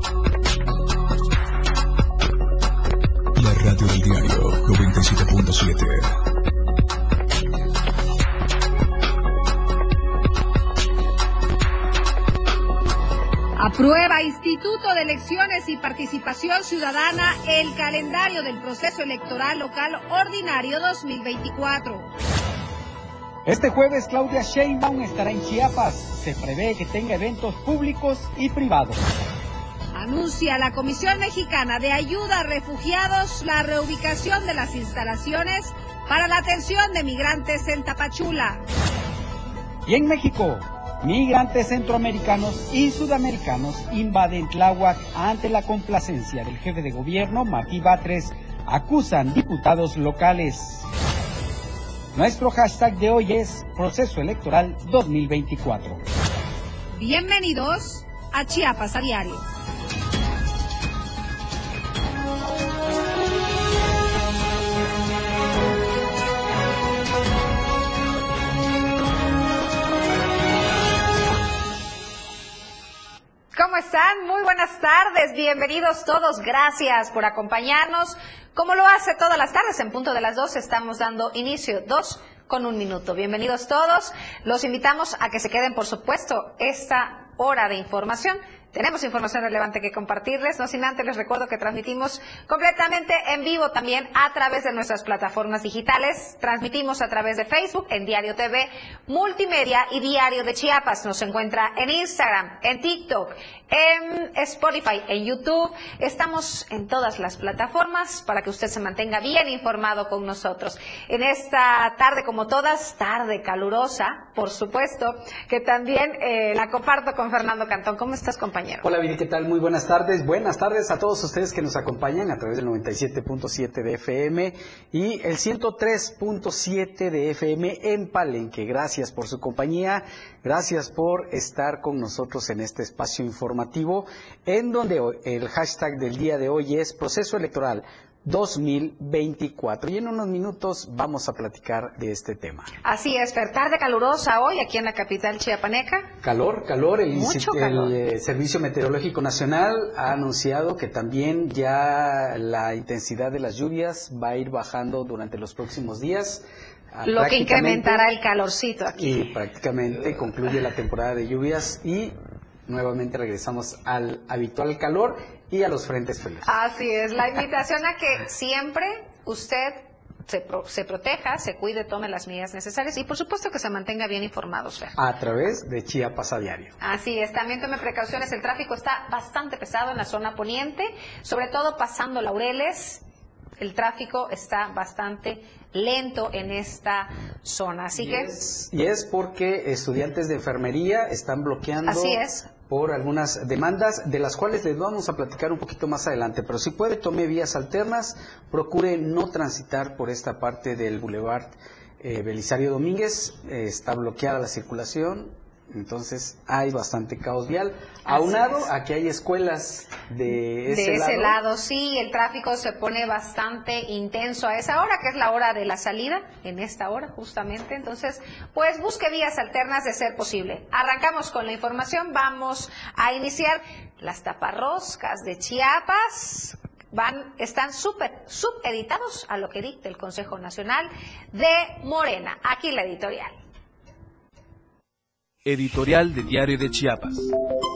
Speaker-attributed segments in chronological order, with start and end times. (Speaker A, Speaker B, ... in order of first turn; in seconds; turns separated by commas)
Speaker A: 3.4-6.1, Speaker B: 13.6-22.1, Speaker C: 23.5-29.0, Speaker B: 29.9-38.6, Speaker C: 39.9-50.9, Speaker C: 52.1-56.0, Speaker B: 57.0-59.4, Speaker B: 73.5-118.8, Speaker C: 118.8-142.7, Speaker B: 142.8-146.1, Speaker C: 146.2-158.1, Speaker B: 147.1-147.9, Speaker B: 157.1-159.2, Speaker C: 158.9-162.2, Speaker C: 162.7-166.6, Speaker B: 166.4-175.0, Speaker C: 175.0-176.7, Speaker B: 176.8-183.0, Speaker B: 183.6-188.3, Speaker C: 187.9-211.4, Speaker B: 191.9-192.5, Speaker B: 208.1-208.7, Speaker B: 210.7-233.3, Speaker A: 235.5-237.2